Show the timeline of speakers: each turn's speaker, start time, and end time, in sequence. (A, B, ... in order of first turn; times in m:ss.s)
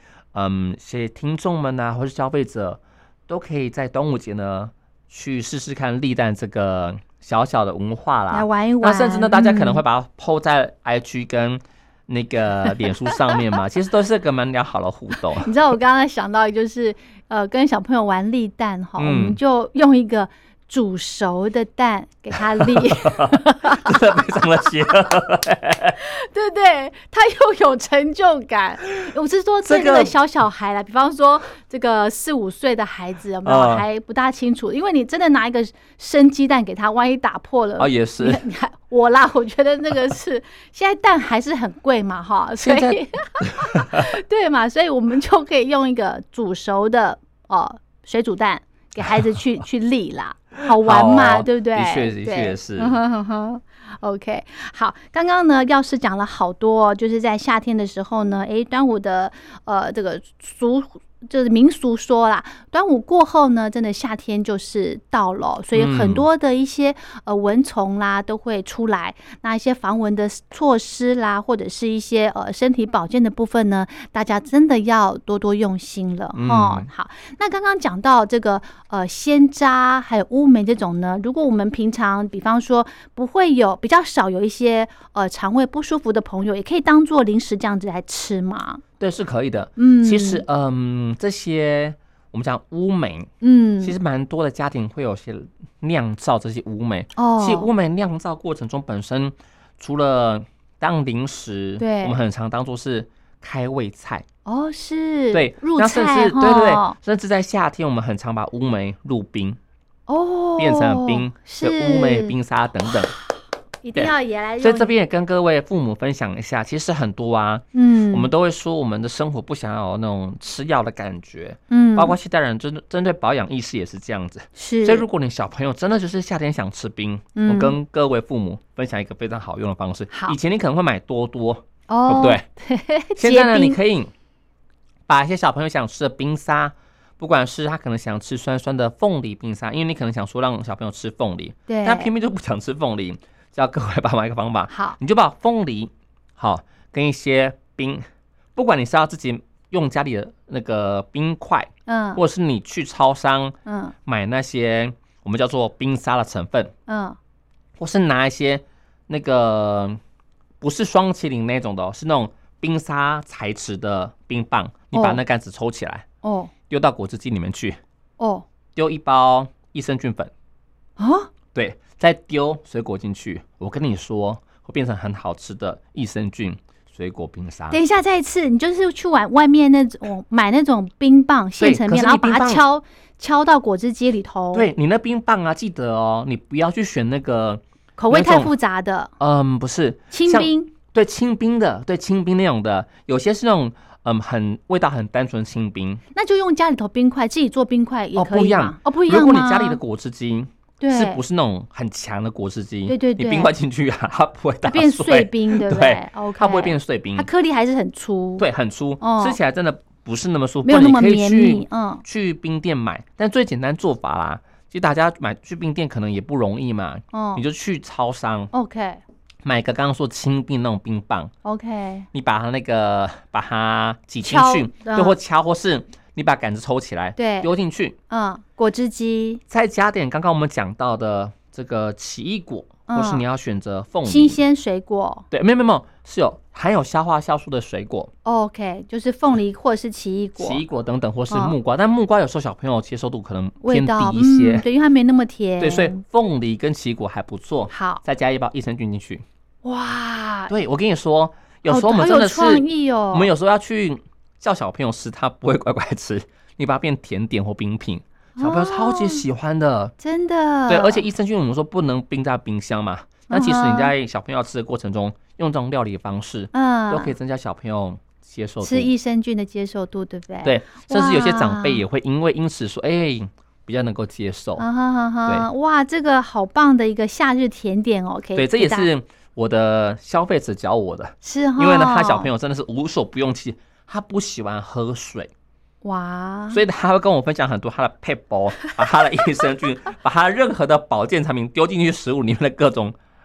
0:00.3-0:15.5 A
0:08.3-0:09.8 B
0:15.3-0:24.2 B
0:19.0-0:19.4 A
0:22.6-0:26.0 A
0:26.0-1:28.8 B
0:29.6-0:30.1 A
0:33.4-0:33.8 A
0:37.8-0:38.4 A
0:42.6-0:44.0 A
0:50.7-0:53.0 A
1:05.7-1:06.2 A
1:16.3-1:16.9 A
1:29.0-1:33.3 A
1:29.8-1:30.4 B
1:33.4-1:34.0 B
1:33.8-1:44.2 A
1:37.2-1:37.7 B
1:41.8-1:42.2 B
1:44.4-1:47.0 B
1:45.3-1:49.6 A
1:50.1-1:52.3 B
1:50.6-1:53.1 A
1:53.8-1:54.9 B
1:53.9-2:12.4 A
1:57.7-1:58.3 B
2:01.7-2:02.2 B
2:04.6-2:05.0 B
2:07.3-2:07.8 B
2:10.1-2:10.4 B
2:11.9-2:13.8 B
2:13.2-2:14.1 A
2:15.1-2:28.0 A
2:21.7-2:22.1 B
2:24.7-2:25.0 B
2:28.5-2:36.7 A
2:31.9-2:32.2 B
2:33.6-2:33.9 B
2:36.9-2:37.2 B
2:37.8-2:40.0 A
2:40.6-2:46.0 A
2:44.9-2:45.2 B
2:46.2-2:46.5 B
2:46.7-2:47.8 A
2:48.2-2:48.4 B
2:48.7-2:50.3 A
2:51.0-2:51.3 B
2:51.5-2:57.8 A
2:57.7-3:04.7 B
3:01.6-3:02.6 A
3:04.5-3:08.5 A
3:08.0-3:09.1 B
3:09.2-3:16.0 A
3:10.1-3:10.7 B
3:16.1-3:19.8 B
3:18.2-3:27.3 A
3:20.8-3:21.2 B
3:22.9-3:23.5 B
3:24.6-3:28.5 B
3:28.4-3:38.5 A
3:29.0-3:29.4 B
3:30.6-3:32.0 B
3:37.1-3:37.4 B
3:38.5-3:39.0 B
3:39.4-3:41.3 A
3:41.4-3:42.1 B
3:42.1-3:48.0 A
3:44.2-3:45.2 B
3:47.2-3:47.5 B
3:48.1-3:49.4 B
3:49.5-3:54.4 A
3:52.9-3:53.2 B
3:54.0-3:55.2 B
3:55.3-3:58.1 A
3:58.2-4:00.6 B
4:00.4-4:04.7 A
4:01.3-4:01.6 B
4:03.6-4:06.0 B
4:05.6-4:09.2 A
4:07.7-4:08.0 B
4:09.6-4:10.5 B
4:10.5-4:19.9 A
4:11.6-4:13.3 B
4:18.4-4:19.2 B
4:20.0-4:21.0 B
4:20.7-4:28.9 A
4:23.3-4:23.9 B
4:26.5-4:27.1 B
4:28.6-4:31.8 B
4:30.4-4:34.6 A
4:34.6-4:38.9 B
4:38.3-4:45.3 A
4:41.2-4:42.3 B
4:45.8-4:46.6 B
4:46.5-4:53.0 A
4:48.6-4:49.4 B